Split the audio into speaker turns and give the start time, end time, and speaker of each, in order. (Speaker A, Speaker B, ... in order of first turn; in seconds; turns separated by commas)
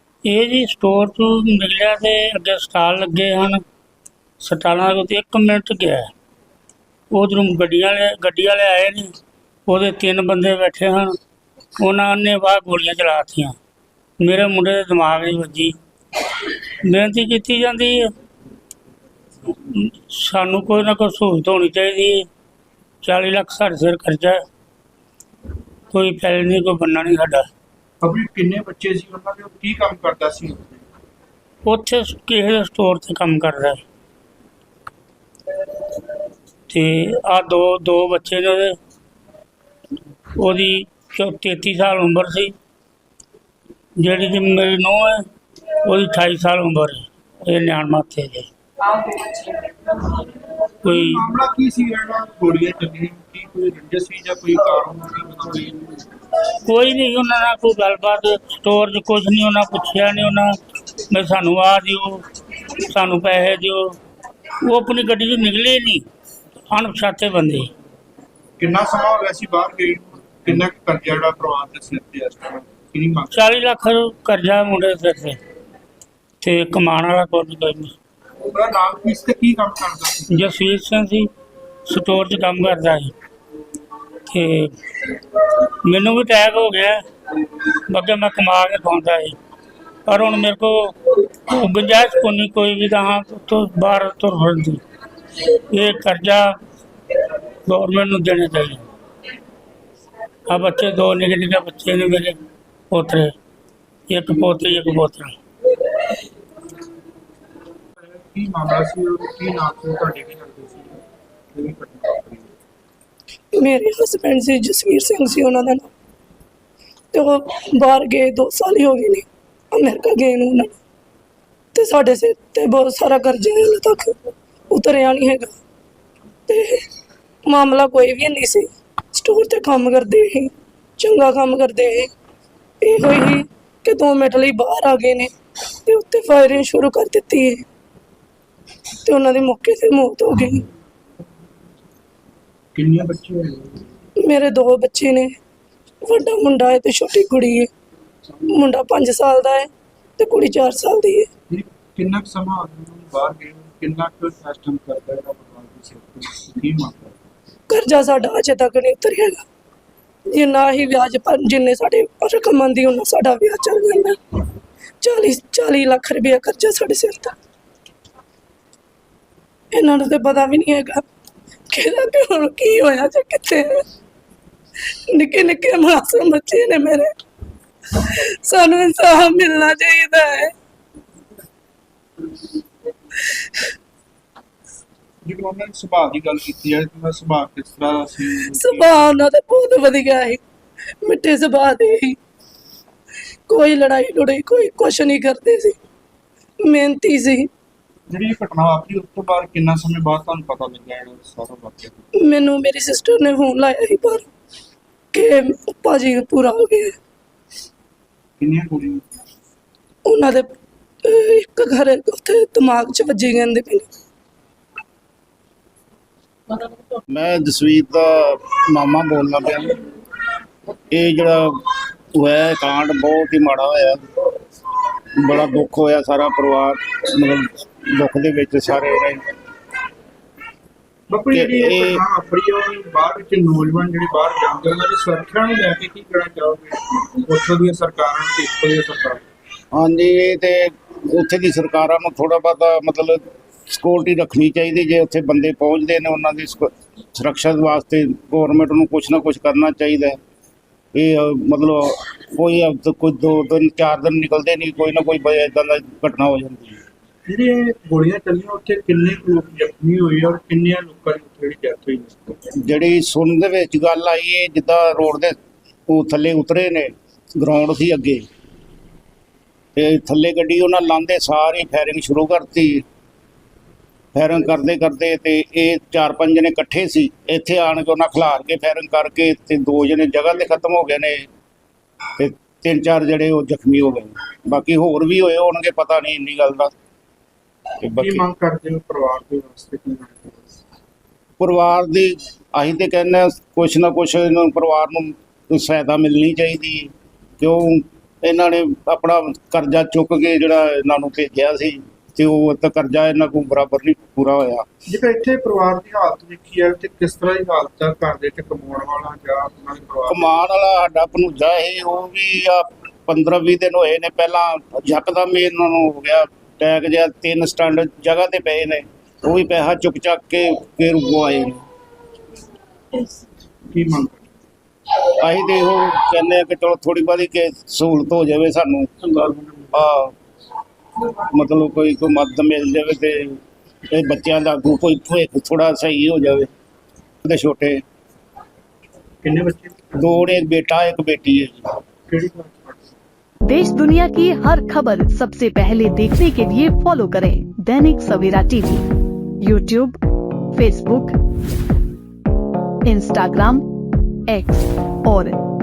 Speaker A: 0.2-3.6, Speaker A: 4.4-6.1, Speaker A: 7.1-9.1, Speaker A: 9.7-11.2, Speaker A: 11.8-13.6, Speaker A: 14.2-15.8, Speaker A: 16.4-18.1, Speaker A: 19.6-22.3, Speaker A: 23.0-24.4, Speaker A: 25.9-27.5, Speaker B: 28.0-30.9, Speaker A: 31.6-33.8, Speaker A: 36.7-38.8, Speaker A: 40.4-42.5, Speaker A: 44.0-45.2, Speaker A: 45.9-48.5, Speaker A: 50.8-51.3, Speaker B: 50.9-56.1, Speaker A: 56.6-60.5, Speaker A: 61.1-62.2, Speaker A: 62.8-64.0, Speaker A: 64.7-66.0, Speaker A: 66.7-67.7, Speaker B: 68.6-73.3, Speaker A: 73.3-75.4, Speaker A: 76.4-78.0, Speaker B: 78.5-80.5, Speaker A: 80.3-81.3, Speaker A: 81.9-83.1, Speaker A: 84.3-87.0, Speaker A: 87.9-89.4, Speaker A: 90.1-94.8, Speaker A: 95.4-96.6, Speaker A: 97.7-98.8, Speaker A: 100.5-102.4, Speaker A: 102.9-103.3, Speaker A: 104.1-105.3, Speaker B: 108.1-111.0, Speaker B: 111.5-112.5, Speaker C: 113.5-115.9, Speaker C: 117.1-120.8, Speaker C: 121.7-124.2, Speaker C: 124.7-125.6, Speaker C: 126.5-126.8, Speaker C: 127.5-132.1, Speaker C: 132.8-135.3, Speaker C: 135.9-137.6, Speaker C: 139.1-140.7, Speaker B: 142.7-143.8, Speaker C: 144.2-145.3, Speaker C: 146.0-147.7, Speaker C: 148.5-151.3, Speaker B: 151.5-157.2, Speaker C: 157.7-159.4, Speaker C: 160.3-164.4, Speaker C: 165.0-167.3, Speaker C: 169.7-171.0, Speaker C: 171.7-173.9, Speaker C: 175.1-177.1, Speaker C: 177.9-180.5, Speaker C: 183.3-183.7, Speaker B: 185.2-189.0, Speaker C: 188.5-190.4, Speaker C: 191.0-192.2, Speaker C: 193.5-195.8, Speaker C: 196.7-197.5, Speaker B: 198.1-202.0, Speaker C: 202.2-204.3, Speaker C: 205.1-207.0, Speaker B: 208.4-209.1, Speaker C: 210.1-210.5, Speaker C: 211.0-213.9, Speaker D: 217.1-219.8, Speaker D: 220.9-224.1, Speaker D: 225.2-229.3, Speaker B: 231.1-239.2, Speaker D: 231.3-232.0, Speaker D: 239.7-250.2, Speaker D: 250.9-256.8, Speaker B: 257.3-262.4, Speaker D: 262.5-265.4, Speaker D: 265.9-268.3, Speaker D: 269.8-272.8, Speaker D: 274.1-281.3, Speaker D: 282.2-286.7, Speaker D: 287.8-288.2, Speaker B: 287.9-290.5, Speaker D: 291.4-304.7, Speaker B: 304.9-310.4, Speaker D: 310.1-321.6, Speaker B: 323.7-324.3, Speaker D: 325.0-329.1, Speaker D: 329.7-330.1, Speaker D: 331.0-333.4, Speaker D: 333.9-336.5, Speaker D: 337.2-337.8, Speaker B: 339.2-339.8, Speaker D: 340.0-341.6, Speaker B: 342.1-342.9, Speaker E: 343.5-348.9, Speaker E: 349.4-350.0, Speaker E: 350.5-351.2, Speaker E: 352.9-353.6, Speaker E: 354.3-355.4